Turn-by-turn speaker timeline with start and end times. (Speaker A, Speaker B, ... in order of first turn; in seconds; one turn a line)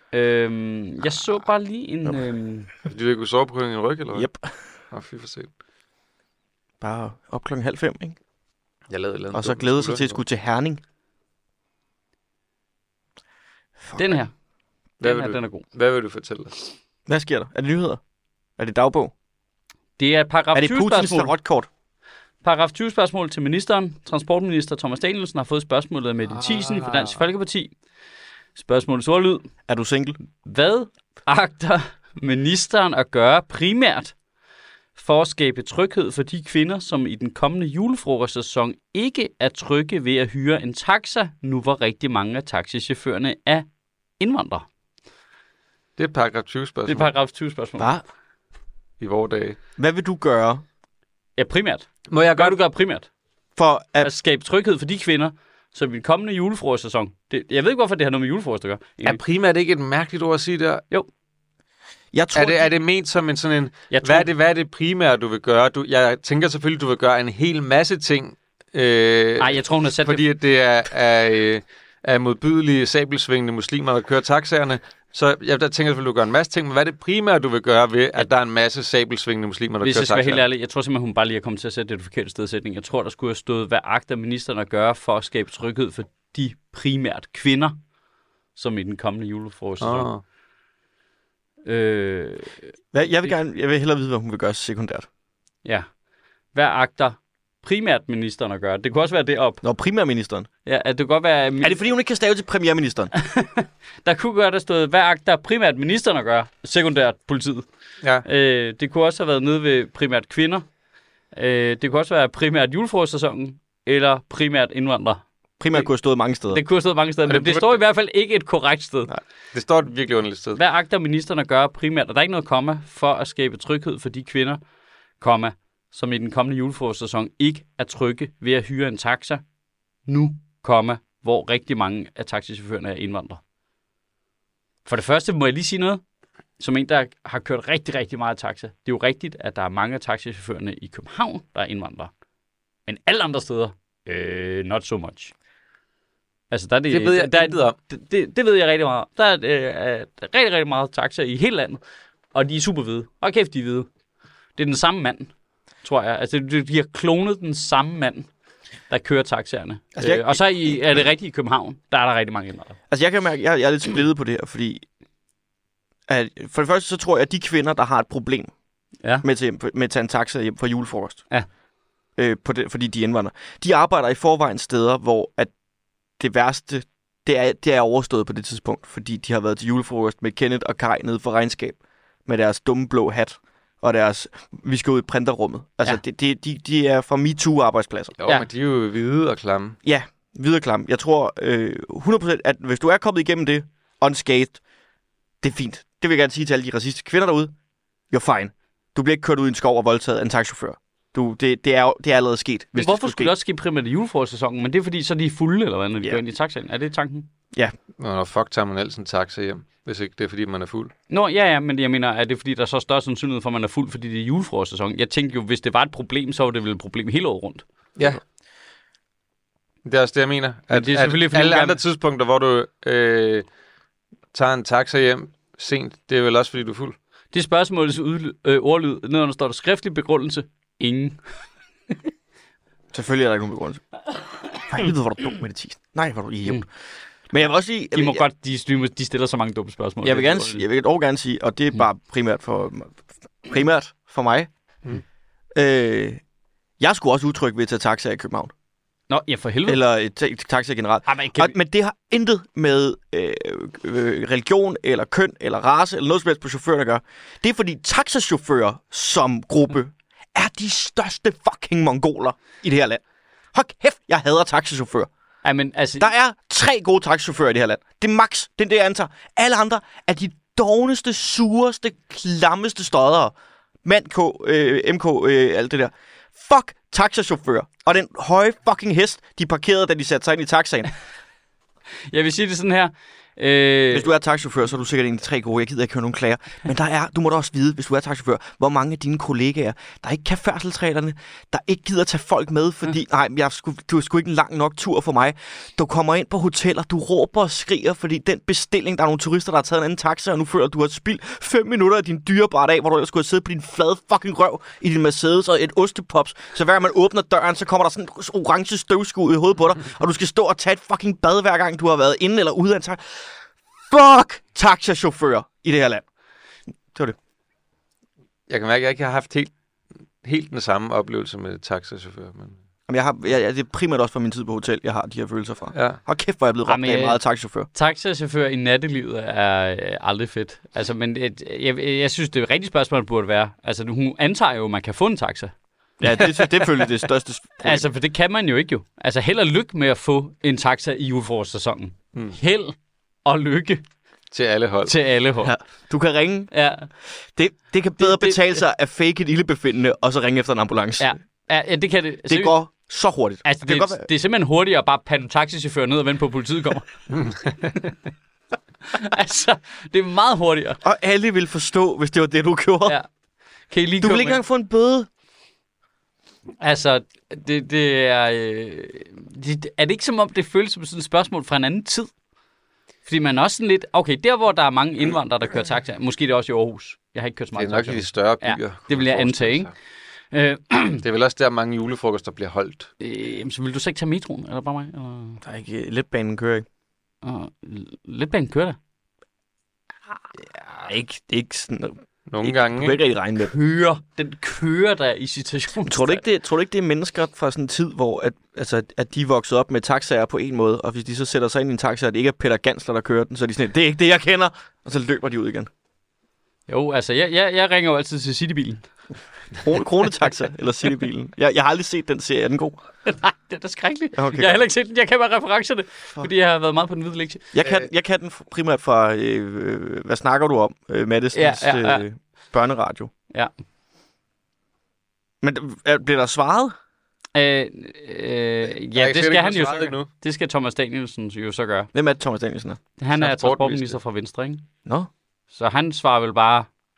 Speaker A: 0.1-2.7
Speaker B: 2.9-4.3
Speaker C: 4.1-4.5
Speaker B: 4.9-5.5
Speaker C: 6.8-8.2
Speaker B: 8.9-10.2
Speaker C: 9.3-10.8
Speaker C: 13.8-14.2
Speaker A: 14.0-14.3
Speaker B: 15.0-16.6
Speaker A: 15.0-15.6
Speaker C: 17.1-18.0
Speaker C: 18.6-19.1
Speaker A: 20.0-21.3
Speaker C: 20.5-21.7
Speaker A: 22.4-27.7
Speaker B: 26.4-27.1
Speaker A: 28.6-29.5
Speaker C: 29.7-30.2
Speaker A: 30.4-34.1
Speaker A: 35.0-43.6
Speaker A: 44.2-44.6
Speaker B: 46.0-47.1
Speaker A: 46.9-47.9
Speaker B: 49.0-49.6
Speaker C: 49.8-50.6
Speaker A: 51.4-53.1
Speaker B: 52.1-52.6
Speaker C: 53.5-54.1
Speaker A: 54.0-59.2
Speaker B: 59.0-60.8
Speaker C: 62.1-62.7
Speaker B: 62.3-80.4
Speaker A: 63.9-64.3
Speaker A: 69.4-70.2
Speaker A: 79.8-87.8
Speaker A: 88.5-90.1
Speaker B: 89.8-90.2
Speaker A: 91.6-92.7
Speaker C: 92.9-95.1
Speaker A: 96.5-99.6
Speaker C: 99.6-100.5
Speaker A: 100.6-101.8
Speaker C: 101.6-103.1
Speaker A: 103.1-107.7
Speaker A: 108.2-110.6
Speaker A: 111.3-115.2
Speaker C: 115.6-116.6
Speaker A: 116.5-119.1
Speaker B: 117.3-117.8
Speaker B: 119.5-120.6
Speaker A: 120.5-124.6
Speaker A: 125.2-129.4
Speaker A: 130.1-133.4
Speaker A: 134.8-136.0
Speaker A: 136.6-142.1
Speaker A: 142.9-145.3
Speaker A: 146.5-151.8
Speaker B: 146.9-147.8
Speaker A: 152.3-153.9
Speaker A: 154.6-155.3
Speaker A: 155.8-158.3
Speaker A: 158.9-162.7
Speaker C: 160.0-160.4
Speaker C: 162.9-164.8
Speaker C: 166.1-168.5
Speaker C: 169.2-171.2
Speaker C: 172.2-175.5
Speaker C: 176.2-188.2
Speaker B: 188.2-189.8
Speaker C: 189.8-194.6
Speaker C: 195.4-197.5
Speaker C: 198.1-203.3
Speaker A: 202.8-207.3
Speaker B: 208.0-210.9
Speaker A: 211.1-217.6
Speaker B: 219.8-223.4
Speaker A: 220.7-221.8
Speaker B: 224.3-226.9
Speaker A: 227.3-231.2
Speaker C: 232.9-233.8
Speaker C: 234.6-236.7
Speaker C: 237.3-238.2
Speaker A: 237.9-240.6
Speaker C: 240.0-244.5
Speaker C: 245.5-246.2
Speaker C: 246.8-248.5
Speaker A: 249.1-249.8
Speaker C: 249.7-263.0
Speaker A: 251.1-251.5
Speaker C: 263.5-265.1
Speaker A: 265.4-266.1
Speaker C: 266.0-280.9
Speaker A: 282.1-284.1
Speaker C: 283.9-316.0
Speaker B: 318.5-319.5
Speaker B: 320.2-322.6
Speaker C: 322.9-327.7
Speaker B: 325.7-326.0
Speaker A: 326.6-327.2
Speaker A: 327.7-335.5
Speaker C: 336.0-337.8
Speaker A: 336.1-336.9
Speaker A: 337.6-343.8
Speaker B: 344.3-344.9
Speaker A: 344.8-345.5
Speaker C: 345.4-346.5
Speaker A: 346.5-346.9
Speaker C: 347.3-351.1
Speaker A: 348.0-348.5
Speaker A: 351.0-352.5
Speaker C: 352.3-354.1
Speaker A: 353.4-356.9
Speaker B: 357.1-357.7
Speaker A: 358.9-360.8
Speaker C: 360.8-363.0
Speaker A: 363.7-364.4
Speaker C: 364.0-365.1
Speaker A: 366.6-372.1
Speaker A: 373.0-379.7
Speaker B: 377.5-379.7
Speaker A: 380.3-381.0
Speaker B: 381.0-382.9
Speaker A: 383.0-385.4
Speaker C: 385.4-386.6
Speaker A: 387.2-388.8
Speaker C: 390.7-393.5
Speaker B: 392.3-393.0
Speaker A: 393.4-396.2
Speaker C: 395.9-405.7
Speaker A: 406.7-408.9
Speaker C: 409.6-412.8
Speaker A: 413.1-417.5
Speaker C: 414.1-414.6
Speaker C: 417.5-423.1
Speaker A: 421.3-422.0
Speaker C: 425.4-426.7
Speaker A: 427.3-431.9
Speaker B: 428.9-430.1
Speaker C: 431.9-432.8
Speaker A: 433.0-434.6
Speaker B: 433.1-434.0
Speaker A: 435.5-436.7